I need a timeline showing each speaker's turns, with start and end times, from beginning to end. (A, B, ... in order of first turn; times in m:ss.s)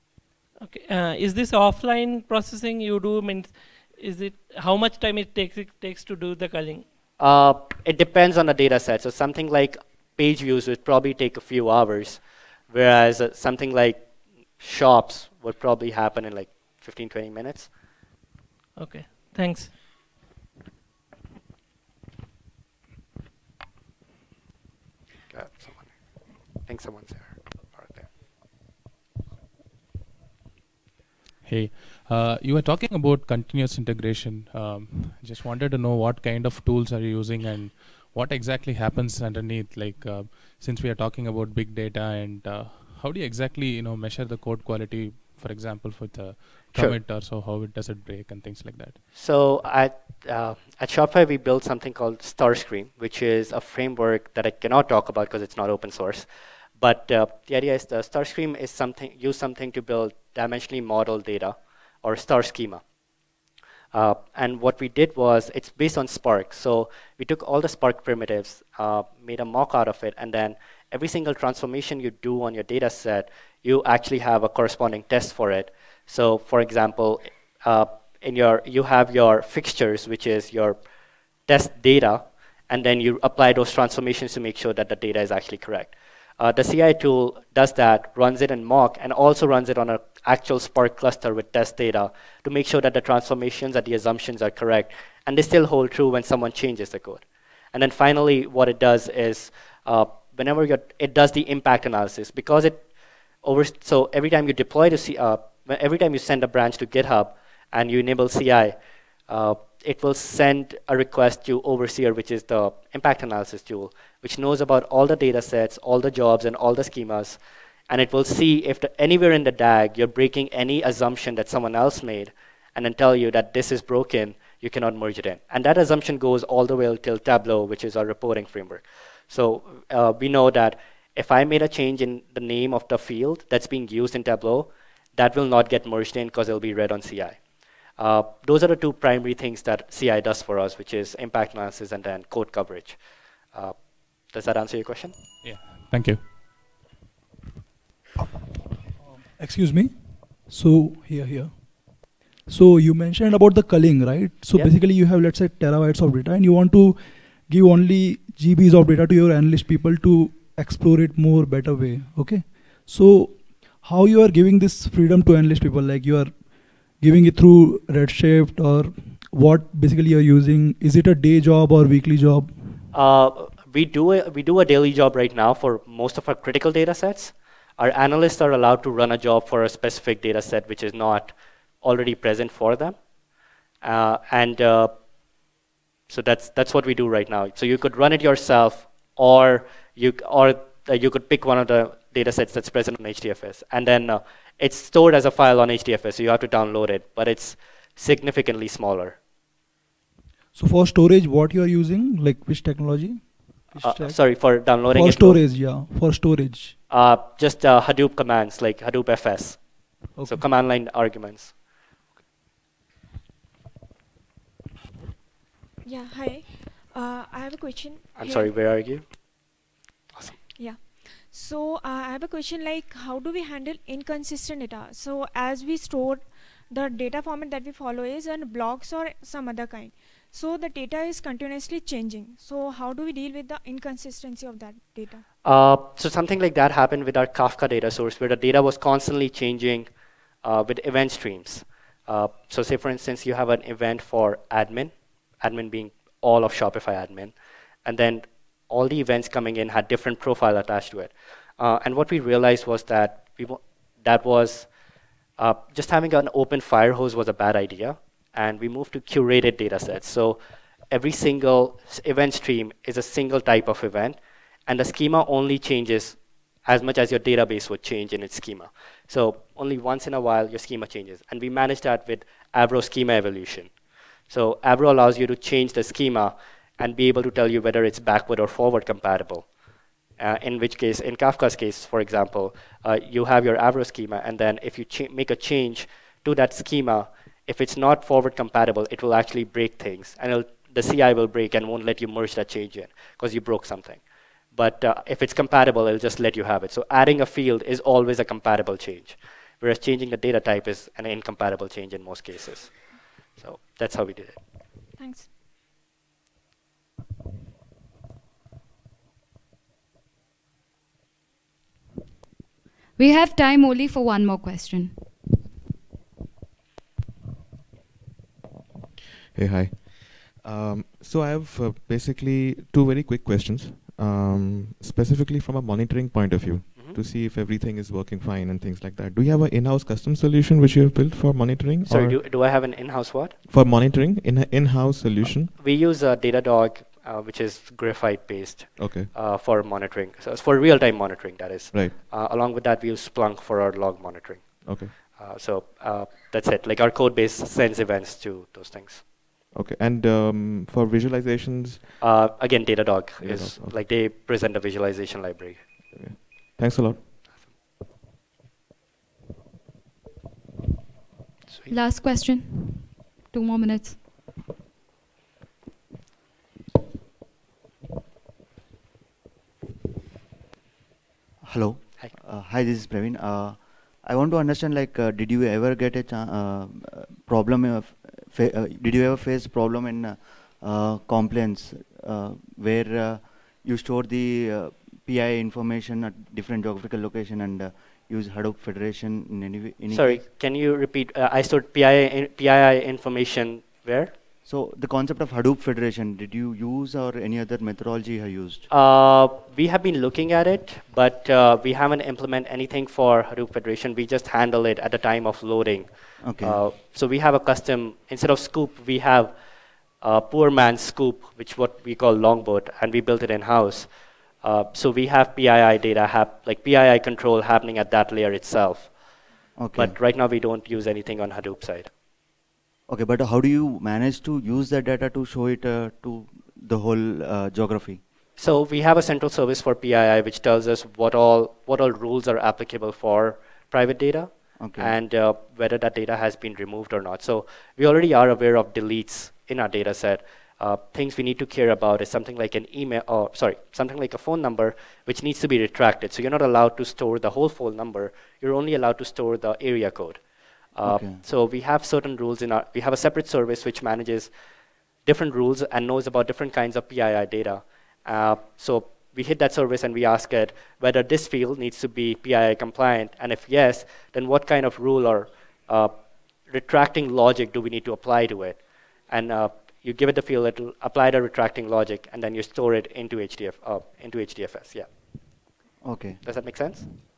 0:00.6-0:06.8 A
0:07.2-0:14.0 B
0:14.6-0:17.7 B
0:18.8-0:19.8 A
0:25.3-0:25.9 B
0:26.7-0:28.0 B
0:31.4-0:49.0 C
0:49.1-0:56.3 B
0:56.8-1:02.8 B
1:03.9-1:20.8 B
1:21.5-1:42.8 B
1:43.4-1:48.8 B
1:49.3-1:57.4 B
1:57.9-2:17.4 B
2:18.0-2:23.0 B
2:23.5-2:25.1 B
2:25.4-2:26.2 C
2:29.3-2:46.3 D
2:46.9-2:52.5 D
2:52.9-3:03.0 B
3:03.8-3:04.9 B
3:06.1-3:19.2 B
3:20.5-3:26.7 D
3:23.8-3:25.4 B
3:26.9-3:31.5 B
3:30.2-3:30.5 D
3:35.8-3:38.5 E
3:38.2-3:39.0 B
3:40.6-3:55.2 E
3:55.4-3:59.9 B
4:00.4-4:07.3 B
4:07.8-4:14.7 B
4:15.4-4:20.4 B
4:20.9-4:33.7 B
4:34.3-4:39.4 B
4:40.2-4:54.0 B
4:54.5-5:02.8 B
5:03.4-5:04.4 B
5:05.0-5:05.3 E
5:13.0-5:15.1 F
5:19.3-5:32.3 G
5:31.8-5:33.3 B
5:33.5-5:35.5 G
5:35.6-5:49.0 B
5:38.8-5:39.1 G
5:44.6-5:44.9 G
5:49.5-5:52.0 G
5:52.0-5:55.6 B
5:53.2-5:53.8 G
5:55.9-5:57.1 G
6:01.7-6:04.0 F
6:11.4-6:30.2 H
6:29.9-6:34.1 B
6:34.4-6:38.6 H
6:38.7-6:49.3 B
6:46.2-6:46.6 H
6:50.0-6:53.9 B
6:54.4-6:58.9 B
6:59.6-7:00.0 H
6:59.7-7:01.9 B
7:02.9-7:08.0 H
7:08.4-7:30.2 B
7:14.6-7:15.0 H
7:30.7-7:34.3 B
7:30.8-7:31.2 H
7:35.0-7:45.9 B
7:46.5-7:48.6 B
7:49.1-7:54.9 B
7:55.8-7:56.2 H
7:56.2-7:56.8 B